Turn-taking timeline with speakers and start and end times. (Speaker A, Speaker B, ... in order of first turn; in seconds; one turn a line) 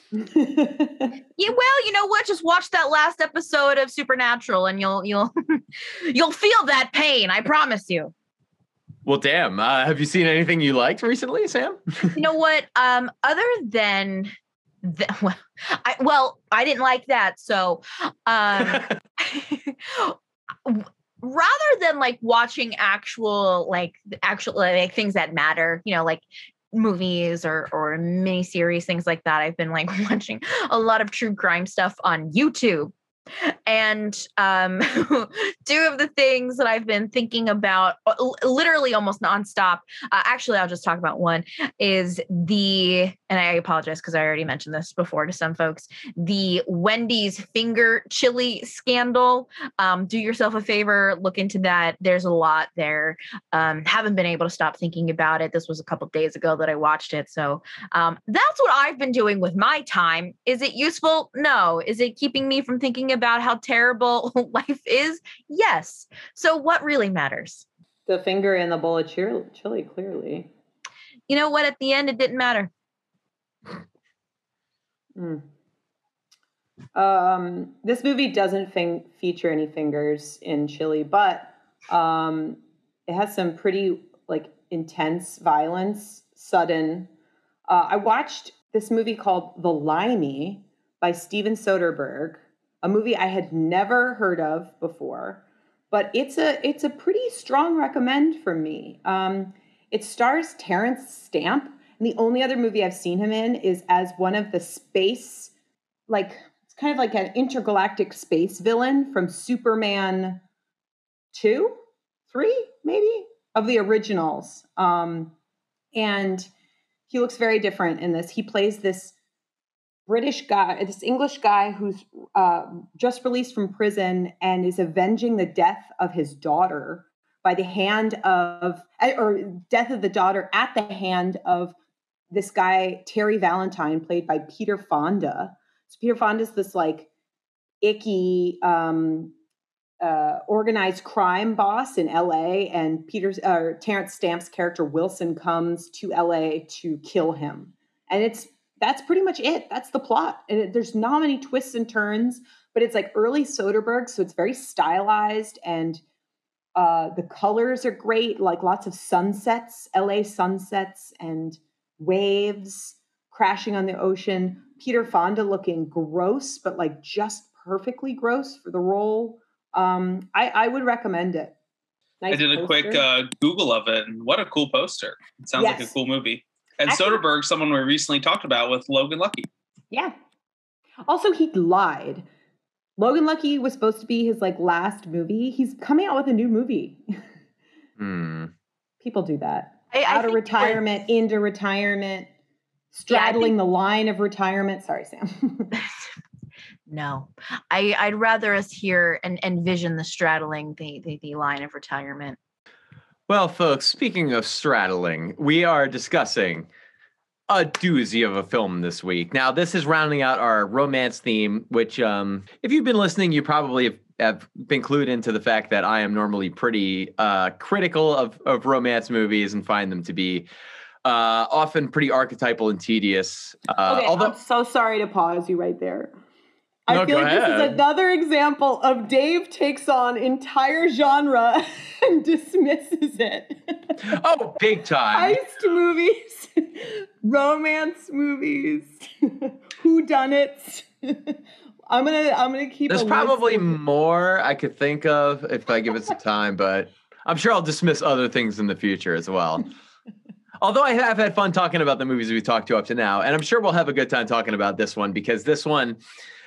Speaker A: 0.1-1.1
Speaker B: 1.4-8.1
Speaker C: 9.1-12.2
Speaker B: 12.1-67.7
Speaker A: 68.1-70.5
Speaker B: 71.3-72.7
Speaker A: 75.2-75.5
Speaker A: 77.0-87.1
Speaker A: 87.7-105.5
Speaker A: 106.1-110.4
Speaker A: 111.3-111.8
Speaker A: 112.3-115.3
Speaker A: 115.9-116.5
Speaker A: 117.1-119.1
Speaker A: 120.1-131.8
Speaker A: 132.3-137.1
Speaker A: 137.8-139.3
Speaker A: 140.0-156.0
Speaker A: 156.8-171.6
Speaker A: 172.2-173.1
Speaker D: 172.3-179.5
Speaker A: 175.6-175.9
Speaker A: 176.9-177.2
Speaker A: 181.1-182.3
Speaker A: 183.0-187.0
Speaker C: 188.0-188.5
Speaker A: 189.0-192.3
Speaker B: 189.9-190.8
Speaker A: 192.9-195.7
Speaker B: 193.1-193.5
Speaker B: 196.9-202.4
Speaker C: 203.3-206.7
Speaker C: 207.5-220.5
Speaker C: 221.0-224.4
Speaker A: 223.9-226.1
Speaker A: 226.9-234.2
Speaker C: 226.9-227.8
Speaker C: 234.0-235.4
Speaker A: 235.1-243.7
Speaker C: 242.9-249.7
Speaker C: 250.6-256.0